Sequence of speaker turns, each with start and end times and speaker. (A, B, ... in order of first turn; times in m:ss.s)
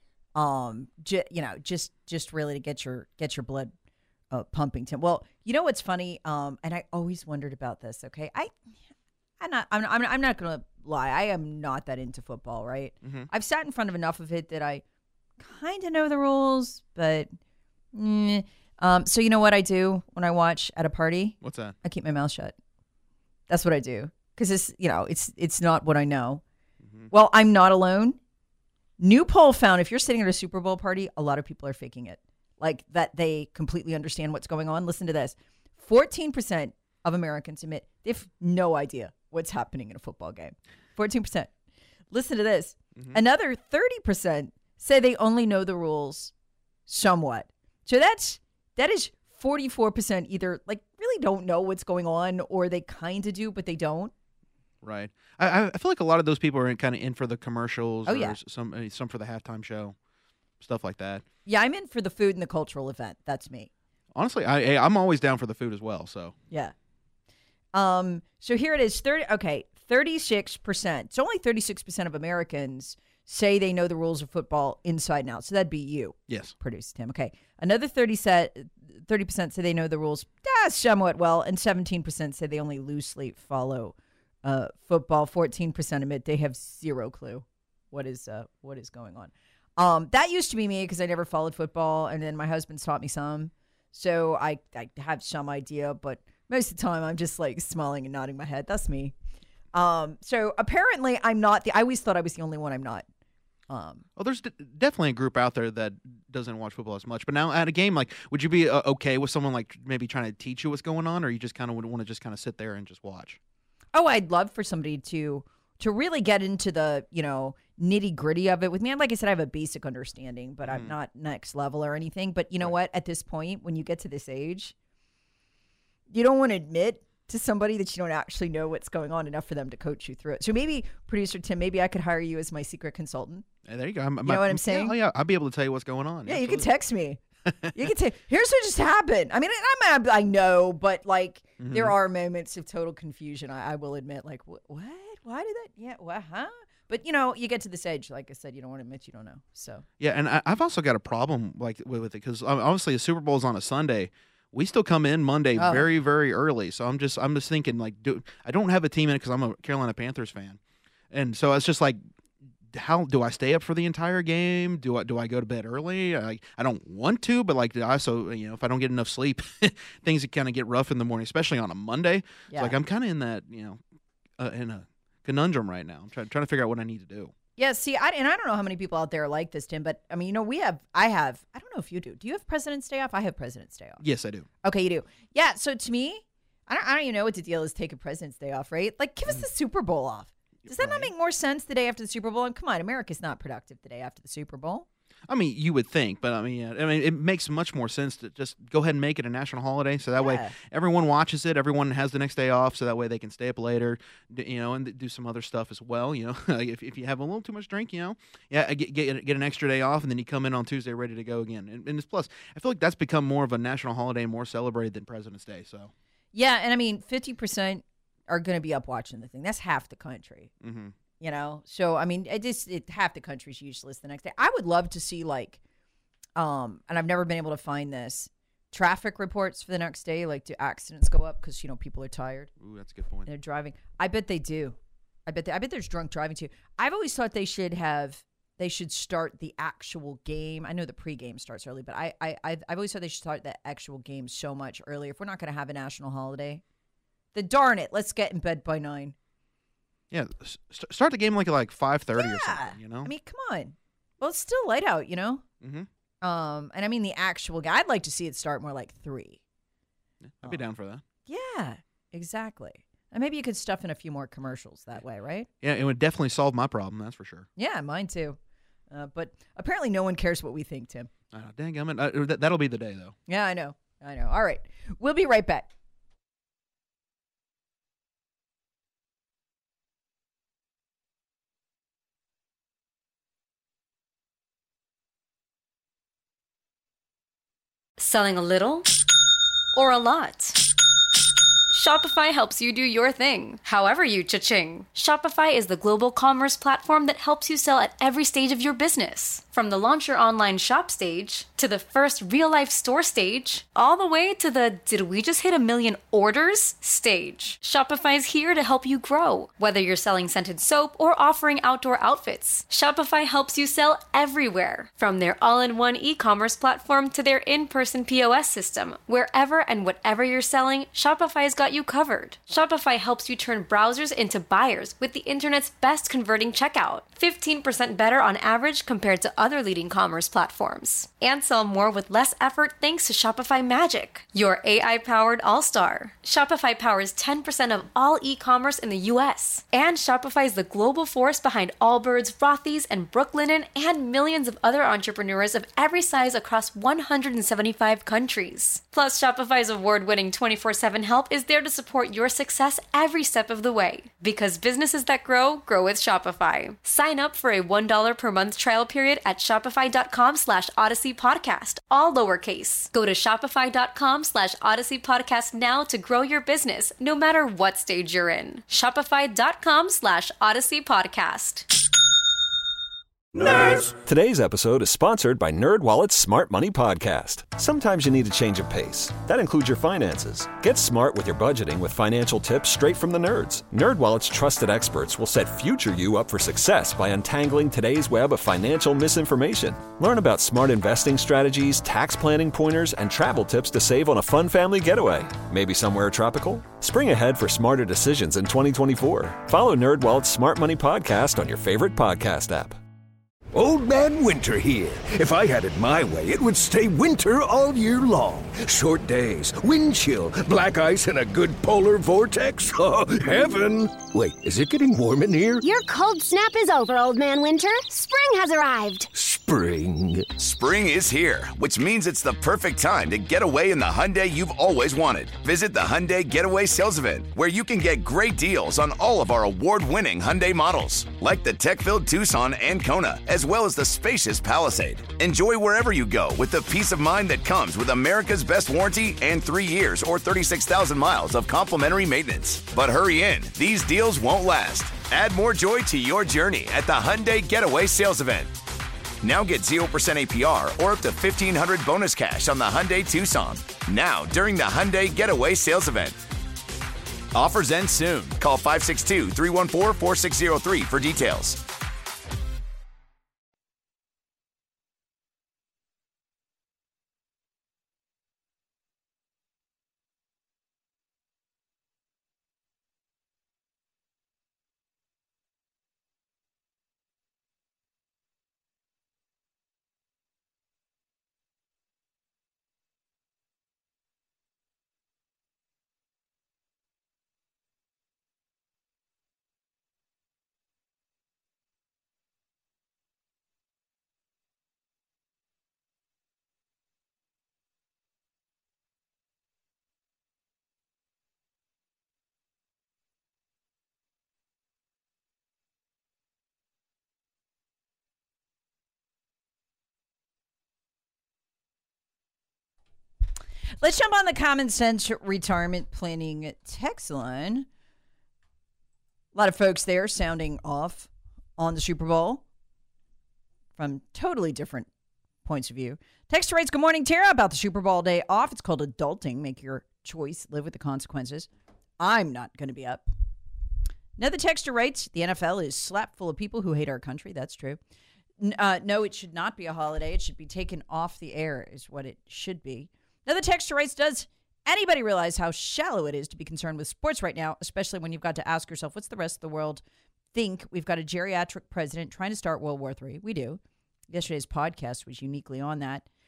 0:00.4-0:03.7 A
0:04.3-0:08.6 A
0:09.4-0:14.8 A
0:13.0-0:13.3 B
0:15.4-0:17.3 A
0:17.9-0:22.6 A
0:21.4-0:21.8 B
0:23.5-0:26.4 A
0:26.8-0:27.1 B
0:27.1-0:28.2 A
0:29.0-0:41.5 A
0:42.1-0:46.3 A
0:46.9-0:54.1 A
0:54.8-1:00.0 B
0:58.1-0:58.4 A
1:00.6-1:01.2 B
1:01.5-1:03.7 A
1:04.2-1:06.4 B
1:07.7-1:39.2 A
1:39.7-1:43.1 A
1:43.7-1:44.0 A
1:44.2-1:53.4 B
1:53.9-2:04.7 A
2:00.6-2:00.9 B
2:06.1-2:13.5 A
2:13.7-2:16.7 B
2:14.2-2:15.0 A
2:16.3-2:17.2 A
2:17.7-2:29.8 A
2:21.6-2:22.0 B
2:30.0-2:40.6 B
2:35.6-2:35.9 A
2:41.1-2:42.0 B
2:42.7-2:53.8 B
2:52.5-2:52.8 A
2:54.4-2:57.3 B
2:57.6-3:04.0 A
3:04.0-3:04.5 B
3:04.6-3:14.9 A
3:10.6-3:11.1 B
3:15.3-3:35.9 B
3:20.2-3:20.5 A
3:36.3-3:40.5 A
3:40.6-3:40.9 B
3:41.2-3:45.6 A
3:46.4-3:52.5 A
3:52.6-3:53.3 B
3:53.3-4:06.6 A
4:07.3-4:09.2 A
4:10.1-4:13.1 B
4:12.2-4:15.4 A
4:15.6-4:15.9 B
4:16.2-4:19.4 A
4:20.2-4:21.0 B
4:21.3-4:25.5 A
4:25.6-4:27.5 B
4:27.6-4:28.4 A
4:28.9-4:31.1 A
4:31.3-4:33.2 B
4:33.3-4:35.7 A
4:48.0-4:48.9 C
4:49.7-4:50.6 C
4:51.7-6:11.7 C
6:13.4-6:13.9 D
6:13.9-6:42.8 E
6:43.5-6:55.6 D
6:55.6-6:59.1 F
6:59.2-7:00.3 D
7:00.4-7:28.5 G
7:29.2-7:36.2 G
7:37.3-7:41.6 G
8:33.8-8:37.7 A
8:39.3-8:42.4 A
8:43.8-8:44.9 A
8:45.4-8:53.0 A
8:54.2-8:57.8 A
8:58.4-9:09.8 A
9:10.3-9:16.1 A